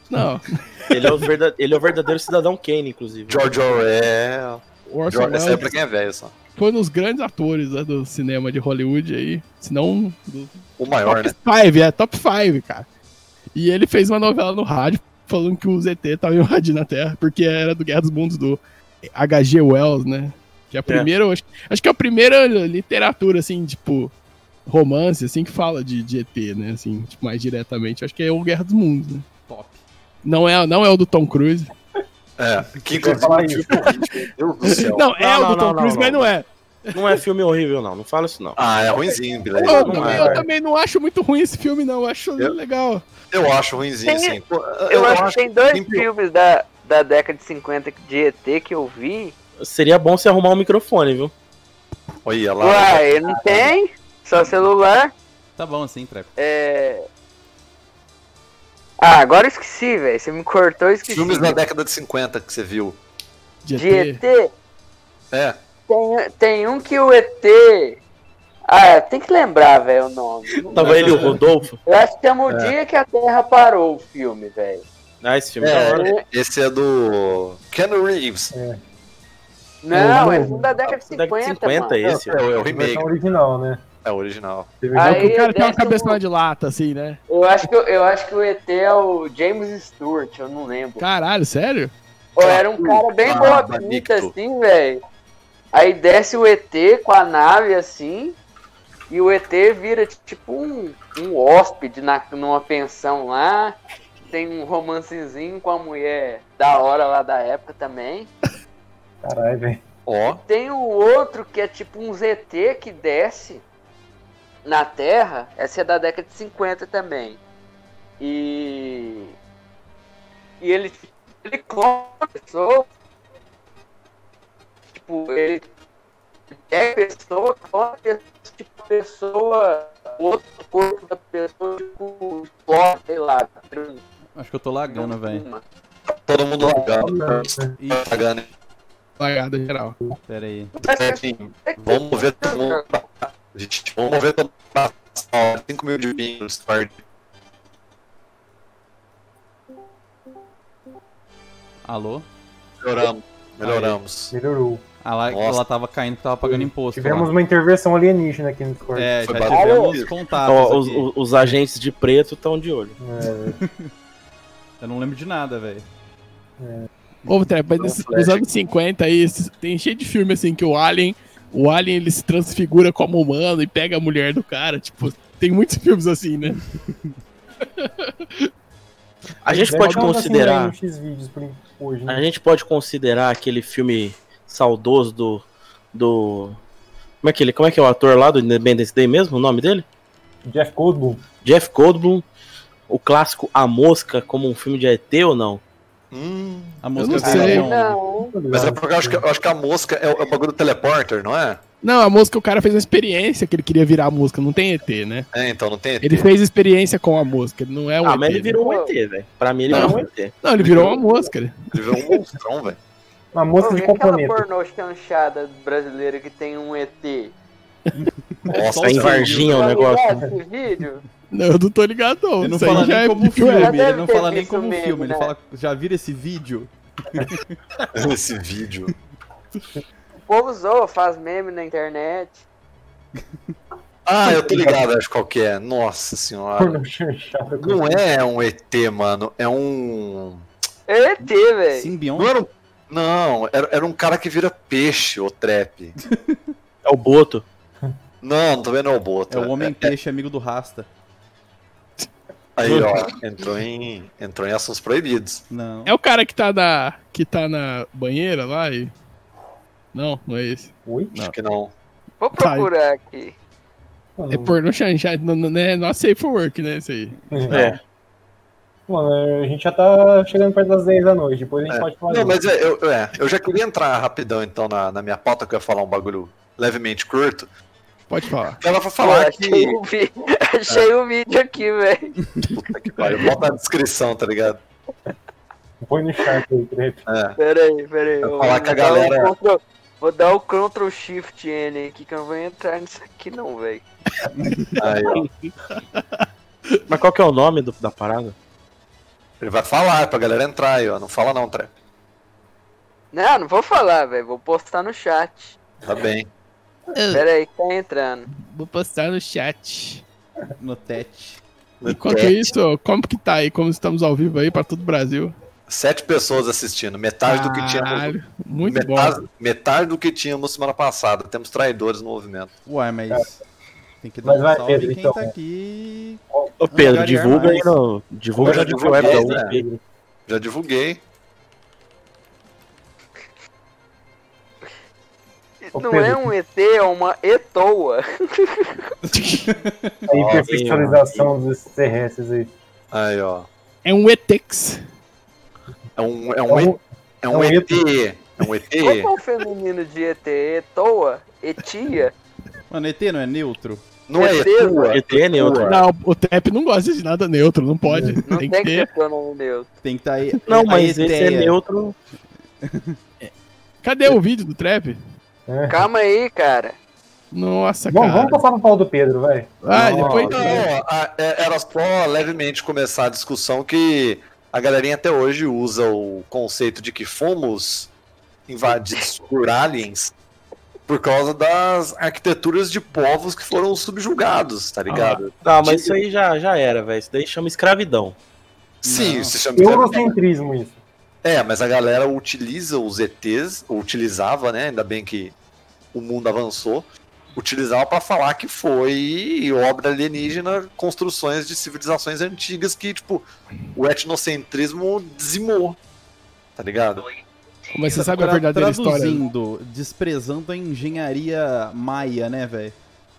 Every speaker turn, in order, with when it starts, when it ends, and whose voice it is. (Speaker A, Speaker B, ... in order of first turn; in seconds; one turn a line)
Speaker A: 0.1-1.2
Speaker B: 0.9-3.7
Speaker C: 3.3-6.3
Speaker A: 4.9-5.7
Speaker A: 6.5-12.8
Speaker C: 10.8-11.3
Speaker A: 13.5-18.6
Speaker A: 19.1-24.1
Speaker A: 24.7-29.2
Speaker D: 29.5-29.8
Speaker A: 30.2-31.7
Speaker C: 32.4-35.2
Speaker E: 33.0-33.9
Speaker A: 34.6-37.2
Speaker B: 35.2-36.3
Speaker B: 36.9-38.6
Speaker C: 38.5-40.3
Speaker A: 39.5-43.0
Speaker B: 39.8-40.4
Speaker E: 39.9-40.5
Speaker C: 43.3-46.1
Speaker F: 44.0-49.3
Speaker B: 49.6-51.3
Speaker C: 52.2-53.7
Speaker F: 52.6-55.1
Speaker D: 55.6-56.3
Speaker F: 56.4-57.0
Speaker F: 59.0-61.6
Speaker C: 61.0-63.0
Speaker A: 63.6-64.2
Speaker F: 63.7-64.5
Speaker C: 65.3-65.6
Speaker F: 65.9-68.0
Speaker F: 68.7-71.0
Speaker E: 70.6-71.3
Speaker B: 70.7-71.8
Speaker C: 70.8-71.3
Speaker F: 71.8-74.8
Speaker C: 72.5-72.7
Speaker B: 75.2-76.2
Speaker C: 75.6-78.5
Speaker F: 76.0-76.2
Speaker E: 78.5-78.8
Speaker F: 79.8-82.0
Speaker E: 79.9-80.7
Speaker B: 81.0-82.5
Speaker C: 82.0-83.1
Speaker E: 82.7-83.8
Speaker C: 84.0-84.7
Speaker E: 84.8-85.3
Speaker F: 84.9-86.2
Speaker A: 85.0-87.2
Speaker F: 87.3-91.0
Speaker A: 91.0-91.9
Speaker F: 92.3-95.0
Speaker C: 92.4-94.3
Speaker F: 95.7-98.3
Speaker F: 99.1-103.8
Speaker F: 104.3-108.3
Speaker E: 109.2-109.8
Speaker C: 110.0-110.4
Speaker F: 110.4-113.6
Speaker F: 114.6-117.4
Speaker F: 118.2-119.3
Speaker F: 120.6-122.9
Speaker F: 124.9-125.7
Speaker F: 126.5-134.0
Speaker D: 134.3-135.4
Speaker F: 134.9-135.6
Speaker C: 136.1-138.5
Speaker E: 136.6-137.7
Speaker D: 137.8-138.2
Speaker A: 139.2-140.0
Speaker D: 140.3-140.7
Speaker F: 140.7-142.9
Speaker C: 140.8-147.0
Speaker D: 151.8-152.3
Speaker C: 152.8-154.3
Speaker D: 153.6-154.0
Speaker E: 154.3-154.8
Speaker D: 155.0-157.3
Speaker C: 155.3-155.6
Speaker E: 156.4-159.1
Speaker D: 158.9-161.1
Speaker C: 159.2-160.1
Speaker F: 159.4-160.0
Speaker B: 160.4-162.9
Speaker E: 163.0-163.6
Speaker D: 163.5-163.9
Speaker D: 164.8-165.8
Speaker E: 166.6-166.9
Speaker A: 167.3-176.6
Speaker C: 167.8-168.4
Speaker A: 177.8-178.5
Speaker B: 179.4-180.7
Speaker E: 179.5-182.2
Speaker B: 182.1-186.6
Speaker B: 187.2-189.8
Speaker E: 190.4-191.2
Speaker B: 191.4-192.2
Speaker B: 192.9-195.6
Speaker C: 196.1-197.5
Speaker D: 196.8-198.0
Speaker A: 197.0-197.7
Speaker F: 197.3-198.3
Speaker E: 198.3-199.2
Speaker C: 198.5-201.6
Speaker A: 201.8-205.3
Speaker C: 205.3-206.3
Speaker A: 206.0-208.6
Speaker B: 208.0-210.4
Speaker F: 208.5-208.9
Speaker A: 209.7-212.2
Speaker C: 210.6-211.0
Speaker C: 211.7-212.8
Speaker E: 213.3-214.4
Speaker F: 213.6-217.3
Speaker D: 217.9-219.7
Speaker C: 218.5-219.5
Speaker B: 218.8-220.2
Speaker F: 219.4-221.0
Speaker A: 221.3-223.7
Speaker D: 222.4-227.5
Speaker F: 223.5-225.3
Speaker C: 227.9-228.9
Speaker F: 230.3-232.4
Speaker C: 234.1-236.8
Speaker E: 234.2-234.8
Speaker E: 236.6-238.0
Speaker C: 237.6-240.4
Speaker F: 240.9-241.9
Speaker D: 241.7-242.3
Speaker C: 242.2-245.9
Speaker D: 246.1-246.4
Speaker B: 246.8-247.4
Speaker C: 248.2-249.9
Speaker D: 249.3-250.9
Speaker C: 252.6-255.4
Speaker B: 252.6-253.0
Speaker D: 255.5-255.9
Speaker A: 255.8-258.9
Speaker A: 259.9-261.3
Speaker E: 260.9-261.1
Speaker C: 261.3-261.7
Speaker F: 262.2-263.3
Speaker A: 262.4-262.7
Speaker E: 264.2-264.6
Speaker A: 264.3-267.7
Speaker E: 267.3-267.6
Speaker B: 267.5-267.8
Speaker E: 268.9-272.4
Speaker C: 271.7-277.5
Speaker A: 278.1-278.6
Speaker C: 278.6-279.8
Speaker F: 279.0-282.1
Speaker C: 282.4-284.6
Speaker E: 285.8-287.0
Speaker C: 287.1-287.4
Speaker F: 287.4-293.8
Speaker C: 288.2-289.3
Speaker D: 294.4-294.6
Speaker C: 294.8-295.2
Speaker B: 295.2-295.4
Speaker A: 295.7-296.2
Speaker B: 296.9-298.3
Speaker C: 299.4-301.7
Speaker F: 303.1-305.6
Speaker C: 305.8-306.3
Speaker A: 306.9-307.2
Speaker F: 307.1-308.3
Speaker A: 308.3-310.0
Speaker D: 310.6-311.4
Speaker C: 311.8-312.5
Speaker A: 311.9-315.3
Speaker C: 315.7-318.1
Speaker A: 317.2-319.2
Speaker C: 318.6-322.5
Speaker D: 322.6-323.4
Speaker D: 324.0-327.8
Speaker E: 324.2-325.3
Speaker B: 326.6-329.6
Speaker C: 328.4-329.5
Speaker E: 328.4-329.8
Speaker C: 330.3-331.0
Speaker F: 335.6-338.9
Speaker E: 335.7-336.2
Speaker A: 339.1-339.5
Speaker D: 339.4-340.0
Speaker E: 340.1-342.5
Speaker C: 340.1-340.5
Speaker B: 340.4-341.3
Speaker C: 342.9-343.5
Speaker A: 343.8-344.8
Speaker C: 345.9-349.1
Speaker E: 346.5-347.9
Speaker F: 348.8-352.1
Speaker D: 352.7-353.8
Speaker C: 354.1-355.8
Speaker F: 354.1-354.9
Speaker B: 354.8-355.8
Speaker A: 355.6-358.9
Speaker E: 357.9-358.2
Speaker F: 358.3-359.7
Speaker D: 359.8-361.6
Speaker B: 360.5-361.9
Speaker D: 362.6-363.0
Speaker A: 363.8-365.0
Speaker E: 365.5-365.8
Speaker F: 365.7-366.8
Speaker A: 367.3-368.4
Speaker E: 367.9-370.6
Speaker A: 369.6-370.6
Speaker C: 370.0-377.9
Speaker C: 378.5-380.1
Speaker C: 380.9-386.0
Speaker B: 385.4-388.1
Speaker C: 388.8-390.1
Speaker D: 388.8-389.3
Speaker E: 389.6-390.8
Speaker C: 391.2-395.3
Speaker C: 395.9-405.8
Speaker C: 406.6-407.1
Speaker A: 407.7-409.2
Speaker D: 407.9-412.8